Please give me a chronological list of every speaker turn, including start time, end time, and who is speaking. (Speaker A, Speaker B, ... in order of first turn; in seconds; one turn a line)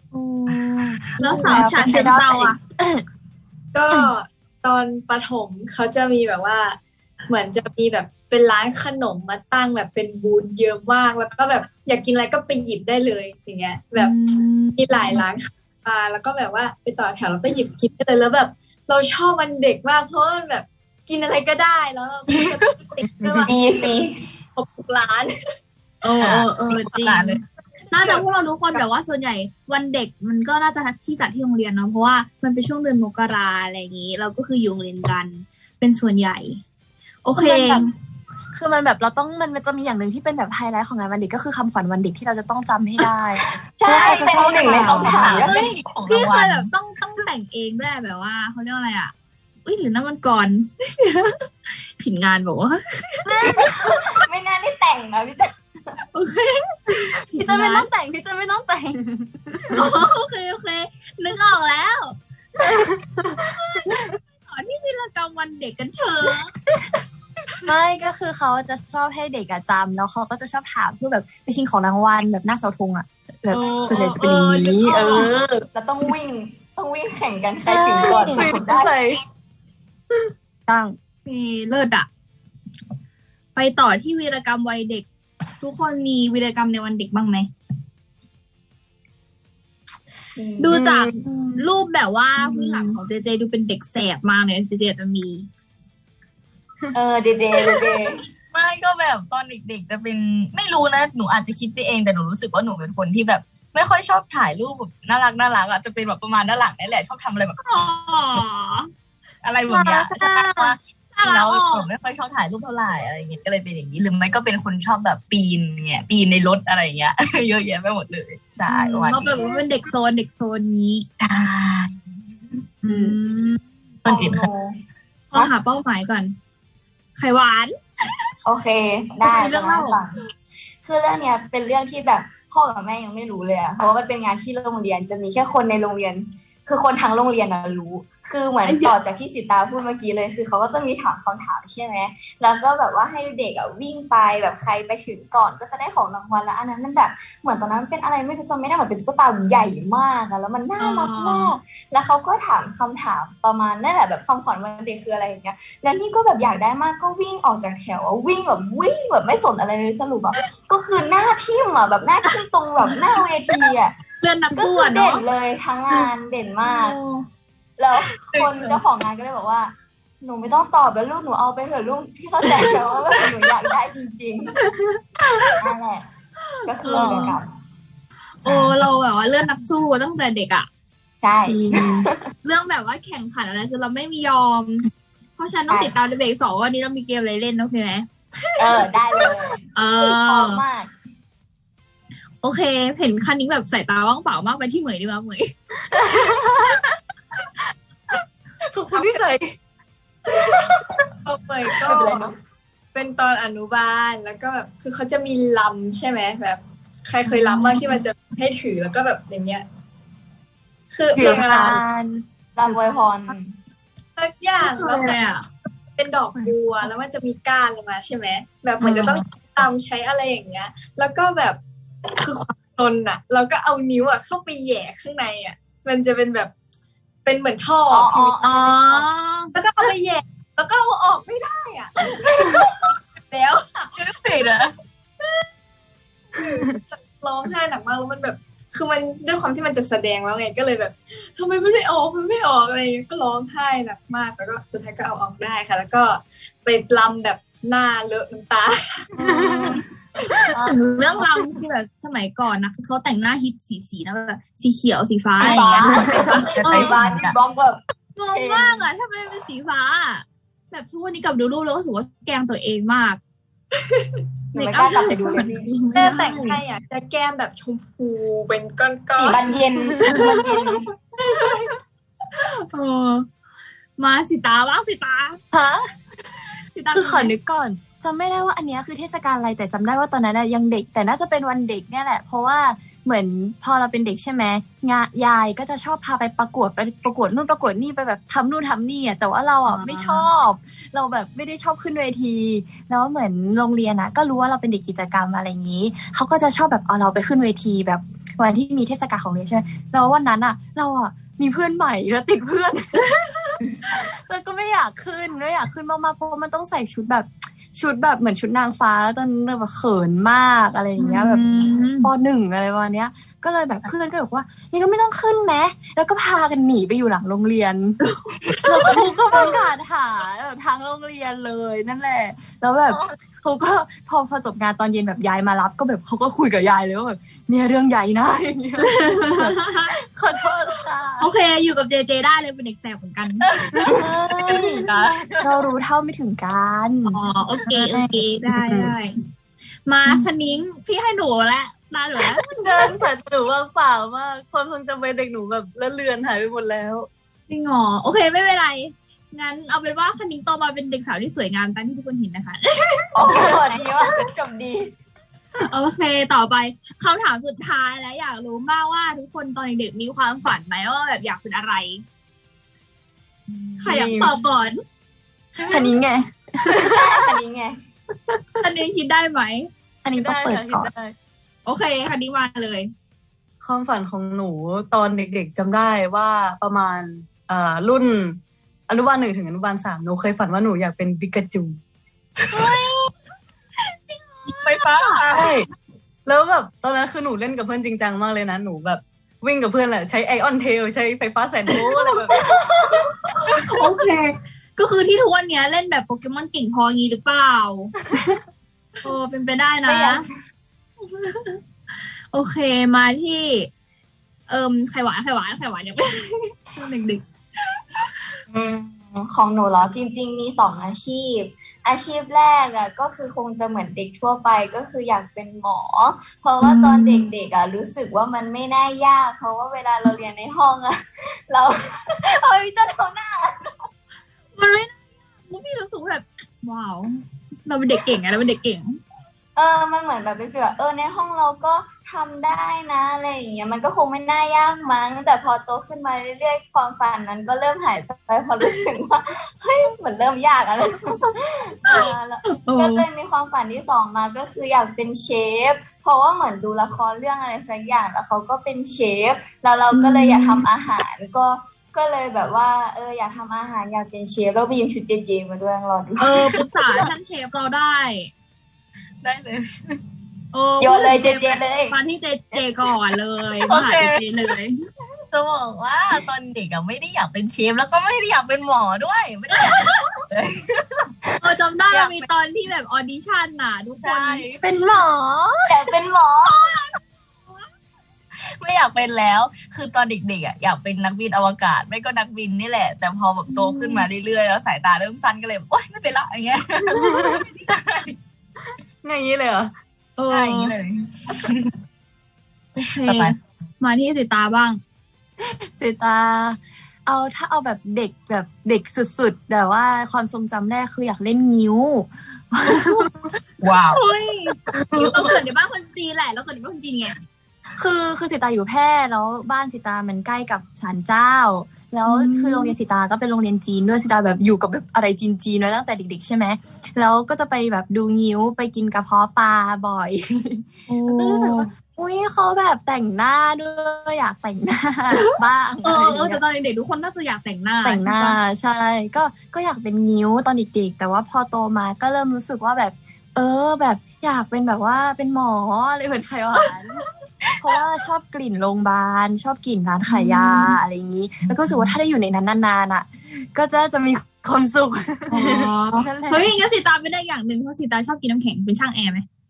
Speaker A: 0.1-3.0
Speaker B: 1.2-2.6
Speaker C: 3.7-14.1
Speaker B: 13.9-15.2
Speaker C: 14.8-23.6
Speaker D: 23.4-24.1
Speaker C: 24.6-25.3
Speaker B: 26.0-36.6
Speaker E: 26.2-27.4
Speaker C: 28.0-28.8
Speaker B: 37.2-37.9
Speaker A: 37.3-37.9
Speaker A: 38.5-45.4
Speaker D: 43.8-45.7
Speaker B: 44.0-49.1
Speaker E: 44.6-46.7
Speaker B: 49.6-51.5
Speaker B: 52.0-53.3
Speaker D: 53.4-55.5
Speaker B: 56.1-57.9
Speaker A: 57.3-59.9
Speaker B: 59.7-66.5
Speaker A: 67.6-75.6
Speaker B: 73.5-75.3
Speaker D: 74.9-78.9
Speaker A: 77.6-78.5
Speaker F: 78.0-79.2
Speaker A: 80.7-81.0
Speaker B: 81.2-82.1
Speaker B: 83.5-85.0
Speaker B: 85.6-87.5
Speaker D: 90.3-90.7
Speaker B: 90.6-95.5
Speaker F: 90.7-91.2
Speaker A: 91.2-91.7
Speaker A: 92.4-92.9
Speaker D: 96.9-98.2
Speaker E: 98.5-107.6
Speaker B: 107.6-108.9
Speaker E: 109.4-119.5
Speaker B: 109.7-110.5
Speaker B: 111.1-111.9
Speaker B: 118.7-121.1
Speaker E: 121.2-122.0
Speaker B: 122.8-123.6
Speaker A: 122.9-123.1
Speaker E: 124.0-124.5
Speaker D: 124.0-124.8
Speaker B: 125.3-126.3
Speaker B: 127.1-127.8
Speaker D: 128.4-130.1
Speaker B: 129.2-130.0
Speaker D: 130.8-163.9
Speaker B: 138.7-138.9
Speaker B: 150.8-151.6
Speaker B: 164.2-165.2
Speaker D: 164.5-167.0
Speaker B: 166.6-167.2
Speaker D: 167.8-174.6
Speaker E: 168.3-168.8
Speaker B: 174.6-175.6
Speaker D: 175.6-176.1
Speaker D: 176.6-177.5
Speaker B: 176.8-177.3
Speaker E: 176.9-177.3
Speaker B: 178.4-180.7
Speaker D: 178.4-178.8
Speaker D: 181.2-182.2
Speaker A: 181.4-182.1
Speaker B: 182.4-190.6
Speaker D: 185.7-185.9
Speaker D: 188.6-190.9
Speaker B: 192.4-195.5
Speaker D: 196.1-196.5
Speaker F: 198.7-199.5
Speaker C: 201.2-202.3
Speaker D: 201.8-202.3
Speaker C: 202.9-209.7
Speaker A: 207.3-208.0
Speaker C: 210.9-211.8
Speaker A: 211.1-213.4
Speaker D: 211.2-211.6
Speaker D: 212.6-213.5
Speaker C: 214.2-215.2
Speaker B: 214.6-215.4
Speaker C: 215.9-221.6
Speaker A: 218.8-219.2
Speaker C: 222.2-226.5
Speaker C: 227.2-228.4
Speaker D: 227.9-229.1
Speaker B: 228.4-229.5
Speaker C: 229.5-232.7
Speaker C: 233.3-233.9
Speaker E: 234.0-234.7
Speaker C: 236.4-249.1
Speaker A: 249.2-249.8
Speaker B: 249.2-249.7
Speaker D: 250.5-250.8
Speaker B: 250.6-256.9
Speaker E: 255.4-257.4
Speaker D: 255.4-257.8
Speaker B: 258.1-263.2
Speaker D: 258.3-258.9
Speaker D: 264.5-265.8
Speaker B: 264.5-266.5
Speaker C: 265.9-269.5
Speaker D: 269.1-270.8
Speaker B: 270.0-270.8
Speaker C: 271.2-271.7
Speaker B: 272.4-273.3
Speaker B: 274.0-275.4
Speaker A: 275.5-275.8
Speaker B: 276.7-277.3
Speaker A: 276.9-303.2
Speaker B: 289.6-290.3
Speaker B: 303.0-303.6
Speaker A: 303.9-318.0
Speaker B: 311.0-312.1
Speaker A: 318.6-331.3
Speaker E: 322.9-323.2
Speaker B: 328.9-329.9
Speaker B: 331.2-333.5
Speaker E: 333.5-335.6
Speaker A: 333.9-337.2
Speaker B: 337.1-339.2
Speaker A: 337.8-338.2
Speaker F: 338.5-338.9
Speaker B: 339.9-342.6
Speaker A: 342.4-343.1
Speaker F: 343.1-347.1
Speaker B: 347.5-353.6
Speaker D: 353.1-354.9
Speaker B: 355.6-362.0
Speaker B: 363.8-364.8
Speaker F: 363.9-364.3
Speaker A: 365.7-366.9
Speaker D: 366.8-367.8
Speaker B: 368.6-369.7
Speaker A: 370.0-370.9
Speaker F: 370.2-371.1
Speaker B: 371.6-372.9
Speaker F: 373.6-381.8
Speaker B: 382.5-383.1
Speaker E: 382.5-382.8
Speaker B: 384.1-385.2
Speaker E: 384.5-385.6
Speaker F: 385.3-385.6
Speaker F: 386.2-392.4
Speaker D: 392.3-393.1
Speaker B: 393.4-397.9
Speaker B: 399.0-400.2
Speaker D: 399.9-400.2
Speaker B: 401.0-401.6
Speaker B: 402.3-403.7
Speaker B: 404.5-407.2
Speaker B: 407.8-408.1
Speaker D: 408.5-423.7
Speaker A: 416.9-417.1
Speaker B: 424.5-429.0
Speaker D: 429.6-456.5
Speaker B: 441.9-443.0
Speaker B: 449.9-450.6
Speaker B: 456.2-458.3
Speaker E: 456.4-457.0
Speaker E: 459.2-460.0
Speaker B: 460.5-464.8
Speaker D: 460.8-461.9
Speaker E: 463.6-464.2
Speaker E: 465.3-471.1
Speaker B: 469.5-470.1
Speaker B: 471.4-474.5
Speaker E: 471.9-472.3
Speaker E: 474.0-474.6
Speaker A: 474.6-475.9
Speaker D: 475.7-476.6
Speaker B: 476.4-477.6
Speaker E: 478.6-488.1
Speaker B: 483.5-484.1
Speaker F: 487.0-487.4
Speaker F: 489.0-489.7
Speaker B: 490.2-490.7
Speaker E: 490.3-491.7
Speaker B: 492.8-494.8
Speaker E: 493.0-493.3
Speaker A: 495.4-503.1
Speaker E: 503.6-504.0
Speaker B: 503.9-507.1
Speaker E: 504.7-505.4
Speaker A: 507.8-526.4
Speaker B: 512.0-512.7
Speaker B: 520.9-521.7
Speaker B: 525.8-528.4
Speaker A: 527.8-537.0
Speaker A: 537.6-546.5
Speaker B: 540.1-540.8
Speaker E: 541.4-541.9
Speaker B: 545.3-549.2
Speaker F: 545.4-545.7